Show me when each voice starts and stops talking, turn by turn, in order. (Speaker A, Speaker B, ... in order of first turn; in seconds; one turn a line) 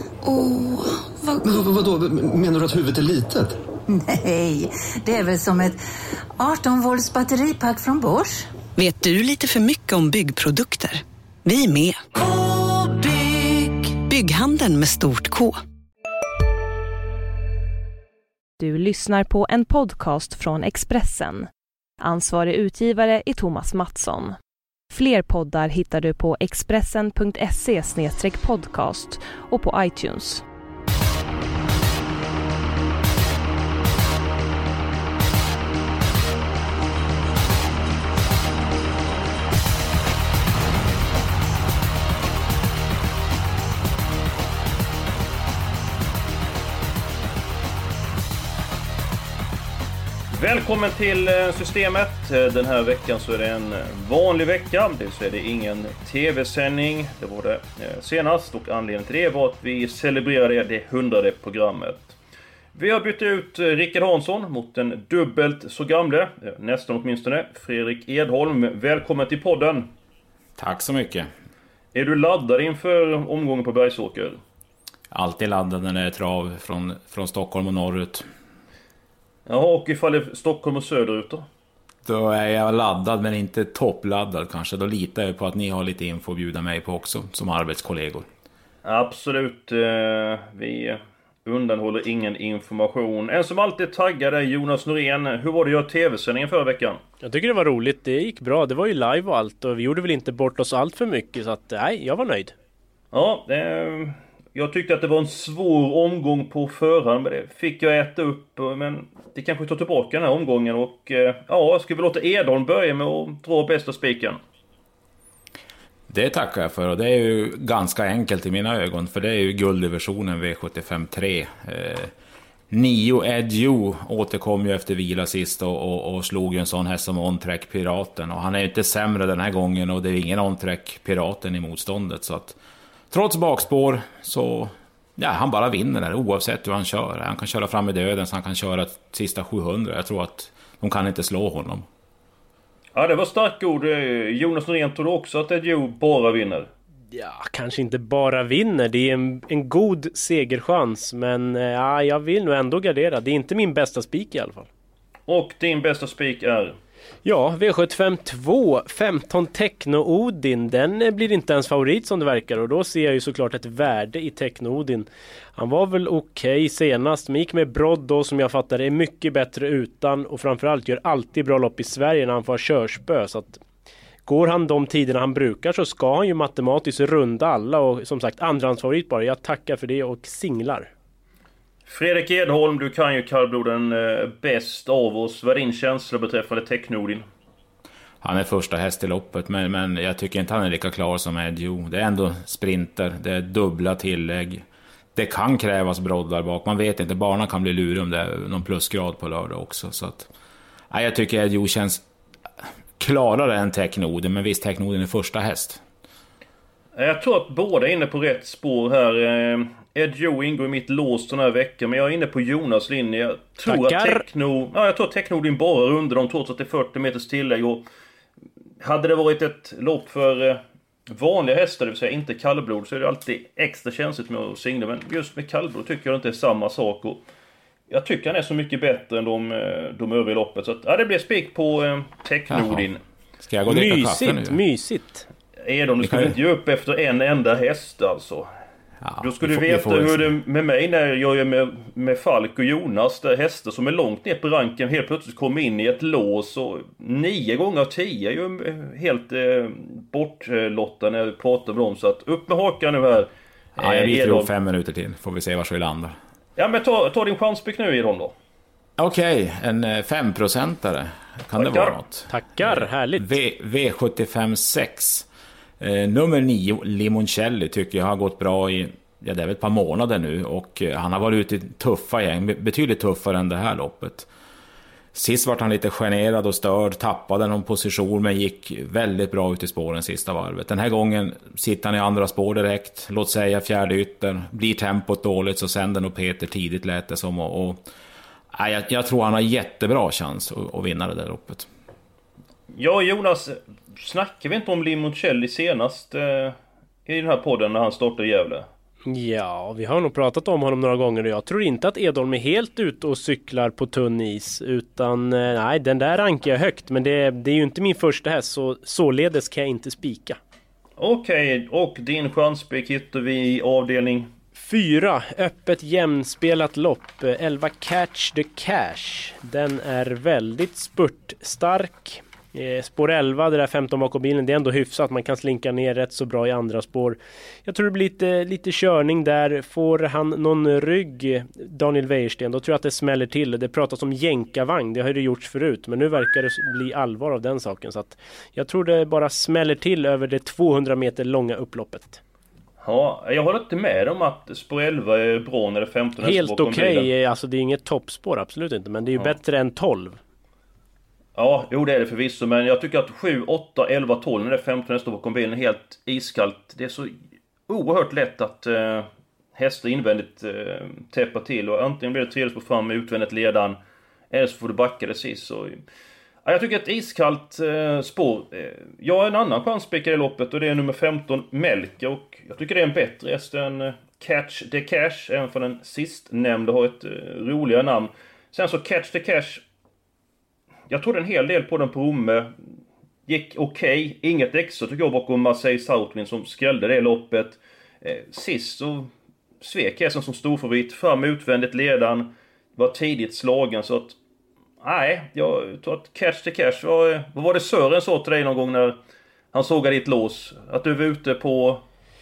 Speaker A: 0.3-0.6
Speaker B: 1.4-3.5
Speaker C: 3.9-5.8
Speaker C: 6.4-8.5
Speaker A: 8.8-12.0
Speaker A: 12.9-15.6
Speaker D: 18.6-21.5
Speaker D: 22.0-24.4
Speaker D: 24.9-30.4
Speaker E: 50.3-62.2
Speaker E: 62.8-69.9
Speaker F: 70.6-71.3
Speaker E: 71.9-74.4
Speaker F: 75.1-78.2
Speaker E: 79.5-81.5
Speaker F: 82.0-88.2
Speaker E: 88.8-97.0
Speaker G: 97.2-102.5
Speaker E: 103.1-114.4
Speaker F: 116.1-122.1
Speaker F: 122.7-132.6
Speaker F: 133.1-141.8
Speaker E: 142.9-146.7
Speaker G: 147.1-154.7
Speaker E: 155.3-156.8
Speaker G: 157.2-173.6
Speaker G: 174.2-180.9
Speaker E: 181.9-187.2
Speaker F: 188.2-194.6
Speaker F: 195.2-200.3
Speaker F: 200.9-202.0
Speaker F: 203.0-205.8
Speaker E: 207.0-217.8
Speaker G: 213.7-214.2
Speaker E: 218.8-227.2
Speaker E: 227.9-233.0
Speaker F: 232.5-232.8
Speaker F: 233.4-234.6
Speaker G: 233.7-235.3
Speaker E: 235.6-238.5
Speaker F: 236.0-236.4
Speaker F: 239.0-240.3
Speaker E: 239.2-254.5
Speaker F: 253.8-256.1
Speaker E: 256.6-258.3
Speaker F: 259.0-265.3
Speaker E: 261.6-261.9
Speaker G: 262.3-263.3
Speaker F: 265.8-274.3
Speaker F: 275.1-287.8
Speaker F: 288.5-291.7
Speaker E: 292.7-298.7
Speaker G: 299.1-310.4
Speaker E: 311.0-314.3
Speaker G: 314.6-342.2
Speaker E: 342.8-347.1
Speaker G: 346.2-350.2
Speaker E: 351.4-357.1
Speaker E: 357.7-363.8
Speaker E: 364.3-365.8
Speaker E: 366.4-379.6
Speaker E: 380.9-382.5
Speaker E: 383.2-389.1
Speaker E: 389.6-394.2
Speaker E: 394.8-399.0
Speaker E: 399.5-401.8